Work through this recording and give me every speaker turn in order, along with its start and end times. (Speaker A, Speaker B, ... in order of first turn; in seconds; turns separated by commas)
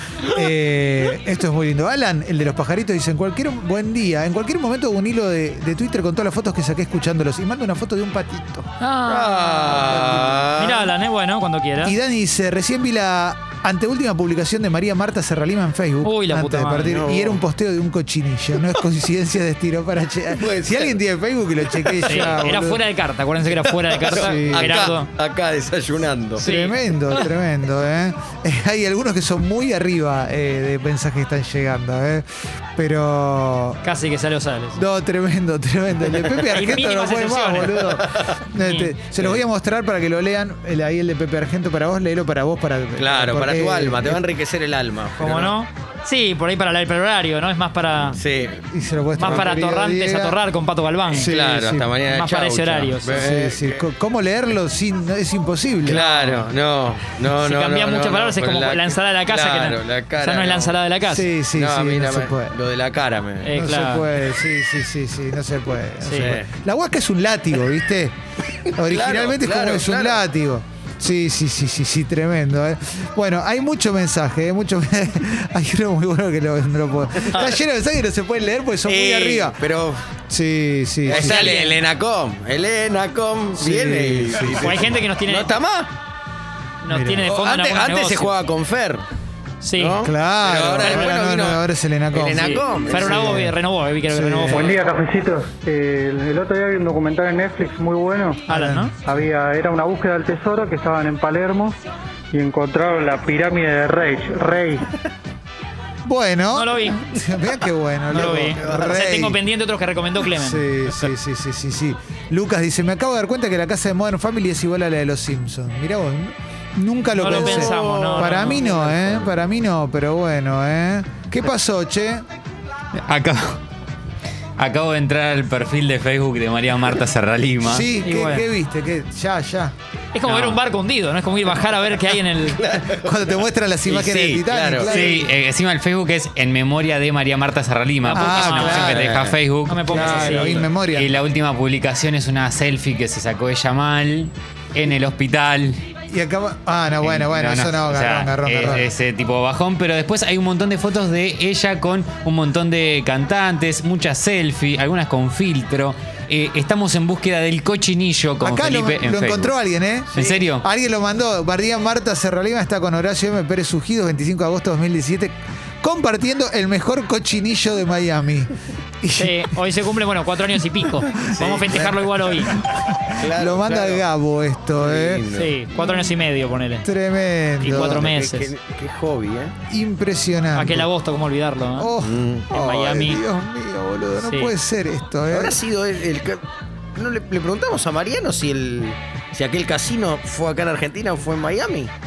Speaker A: 0.2-8.7, Speaker B: 8.8-12.0, Speaker C: 9.1-10.9, Speaker A: 9.9-10.5, Speaker A: 11.8-22.8, Speaker B: 16.0-16.9, Speaker C: 16.8-17.4, Speaker C: 20.4-21.0, Speaker C: 21.7-22.4, Speaker B: 22.1-25.1, Speaker C: 23.6-26.4, Speaker A: 24.1-24.8, Speaker B: 26.4-27.3, Speaker A: 26.4-32.2, Speaker A: 32.8-33.8, Speaker B: 33.8-34.8, Speaker A: 34.8-44.2, Speaker B: 36.5-37.9, Speaker C: 38.1-38.4, Speaker B: 38.6-39.0, Speaker C: 43.0-45.6, Speaker B: 45.2-48.2, Speaker C: 48.2-48.7, Speaker A: 48.7-50.4, Speaker B: 49.2-51.4, Speaker C: 49.2-49.5, Speaker A: 51.1-51.9, Speaker C: 51.1-53.9, Speaker B: 52.1-53.3, Speaker A: 53.1-56.0, Speaker C: 55.9-60.8, Speaker B: 55.9-56.4, Speaker B: 57.3-61.3, Speaker A: 61.1-62.6, Speaker C: 61.5-63.5, Speaker B: 63.4-64.1, Speaker A: 63.5-68.1, Speaker B: 66.0-66.4, Speaker C: 66.2-66.5, Speaker C: 68.7-70.2, Speaker A: 68.8-79.6, Speaker C: 78.9-80.0, Speaker A: 80.3-81.6, Speaker C: 81.1-85.9, Speaker B: 81.1-81.8, Speaker A: 83.6-85.0, Speaker B: 84.6-85.5, Speaker B: 86.8-88.4, Speaker A: 86.9-87.3, Speaker C: 87.3-89.0, Speaker B: 89.6-90.0, Speaker C: 89.8-93.4, Speaker A: 90.0-94.7, Speaker B: 92.4-94.8, Speaker D: 94.5-98.4, Speaker B: 98.5-98.9, Speaker A: 98.5-98.9, Speaker D: 99.1-101.8, Speaker D: 102.3-104.8, Speaker A: 106.0-109.4, Speaker B: 106.5-107.0, Speaker B: 108.1-111.1, Speaker C: 108.2-108.9, Speaker A: 110.4-122.2, Speaker B: 117.1-118.7, Speaker C: 117.2-119.4, Speaker E: 123.0-123.6, Speaker E: 124.6-127.9, Speaker A: 127.6-129.7, Speaker B: 128.0-128.5, Speaker B: 130.1-132.6, Speaker E: 130.3-130.6, Speaker C: 131.6-135.0, Speaker A: 133.0-135.3, Speaker E: 134.8-145.8, Speaker B: 138.1-139.0, Speaker A: 138.1-139.1, Speaker C: 138.7-139.4, Speaker B: 139.7-140.6, Speaker A: 139.9-141.2, Speaker A: 146.1-148.9, Speaker E: 147.0-159.6, Speaker A: 158.4-169.5, Speaker C: 160.1-160.4, Speaker E: 160.1-160.7, Speaker B: 169.2-172.6, Speaker C: 171.4-171.8, Speaker A: 171.4-172.0, Speaker A: 172.6-176.2, Speaker C: 173.2-174.1, Speaker C: 174.8-175.5, Speaker B: 175.3-176.9, Speaker A: 176.8-178.1, Speaker B: 177.6-178.5, Speaker C: 177.8-179.6, Speaker A: 179.7-180.9, Speaker B: 180.5-181.9, Speaker A: 181.7-185.6, Speaker C: 182.0-182.5, Speaker B: 182.5-183.2, Speaker B: 184.2-184.5, Speaker C: 185.3-186.4, Speaker C: 186.9-191.9